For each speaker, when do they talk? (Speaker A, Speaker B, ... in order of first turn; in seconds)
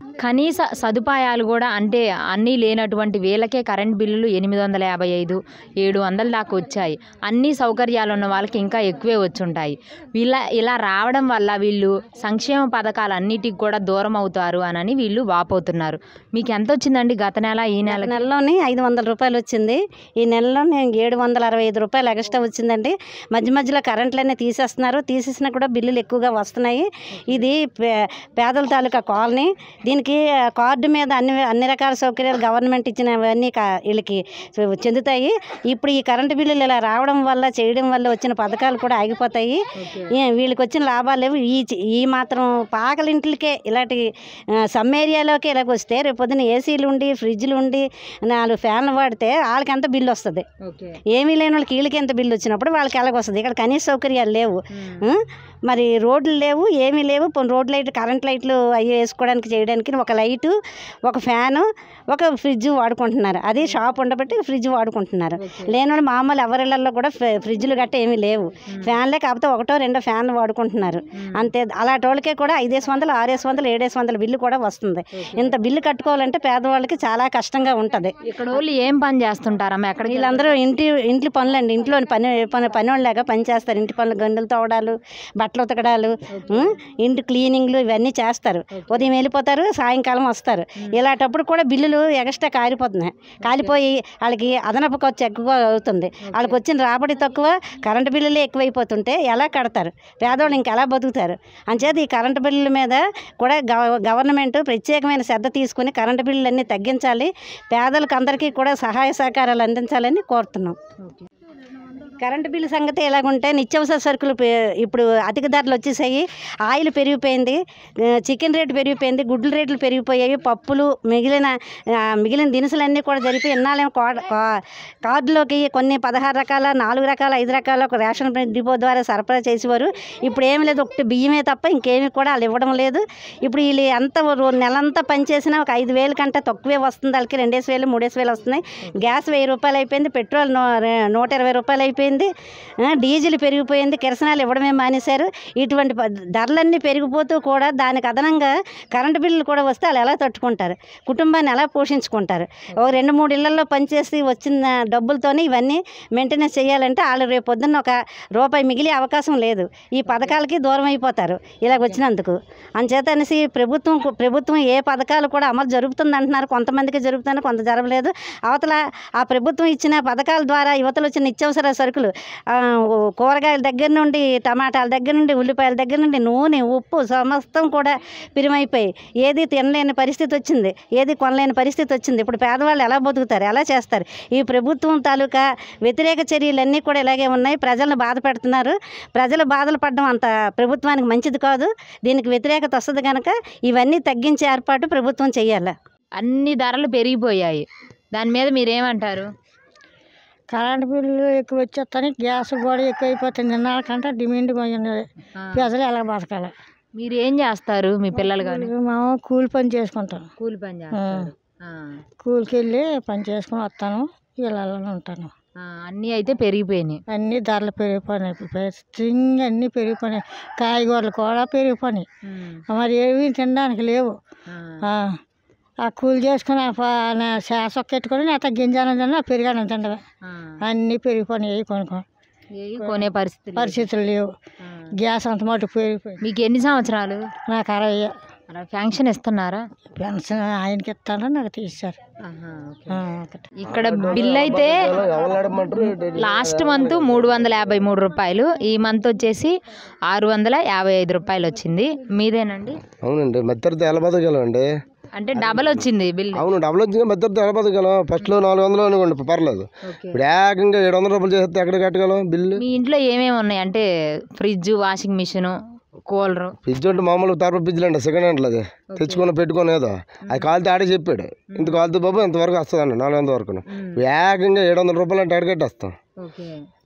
Speaker A: 0.2-18.3, 39.8-40.1, 50.6-51.0, 54.8-55.1, 65.4-65.7, 68.7-69.0, 71.2-71.5, 75.2-75.5, 78.2-80.5, 86.3-86.7, 88.7-89.1, 93.5-93.8, 96.2-96.6, 100.3-100.6, 160.1-160.4, 196.2-199.3, 205.4-205.7, 207.0-208.7, 210.4-212.0, 215.6-217.0, 222.3-222.6, 224.5-224.8, 230.2-230.6, 232.6-233.9, 234.6-234.9, 236.2-237.3, 238.5-239.6, 242.2-243.0, 243.6-244.9, 245.8-249.5, 250.1-252.8, 255.2-256.5, 259.9-260.2, 262.6-263.8, 264.4-265.6, 266.1-266.6, 268.9-269.3, 271.5-271.8, 273.7-274.0, 276.2-276.6
Speaker B: 17.9-39.6, 40.2-44.0, 44.7-50.5, 51.1-60.5, 61.1-78.2, 80.0-110.8, 112.2-117.6, 118.2-121.5, 122.2-124.4, 125.0-142.3, 142.8-195.7
Speaker C: 200.5-206.5, 208.2-210.3, 211.0-211.3, 212.2-215.3, 217.1-222.1, 222.7-224.1, 224.9-225.2, 225.8-230.0, 230.6-232.0, 233.6-234.3, 235.0-236.2, 237.5-238.1, 239.9-242.0, 242.9-243.5
Speaker D: 243.7-247.6, 253.0-254.7, 255.4-262.6, 266.6-276.0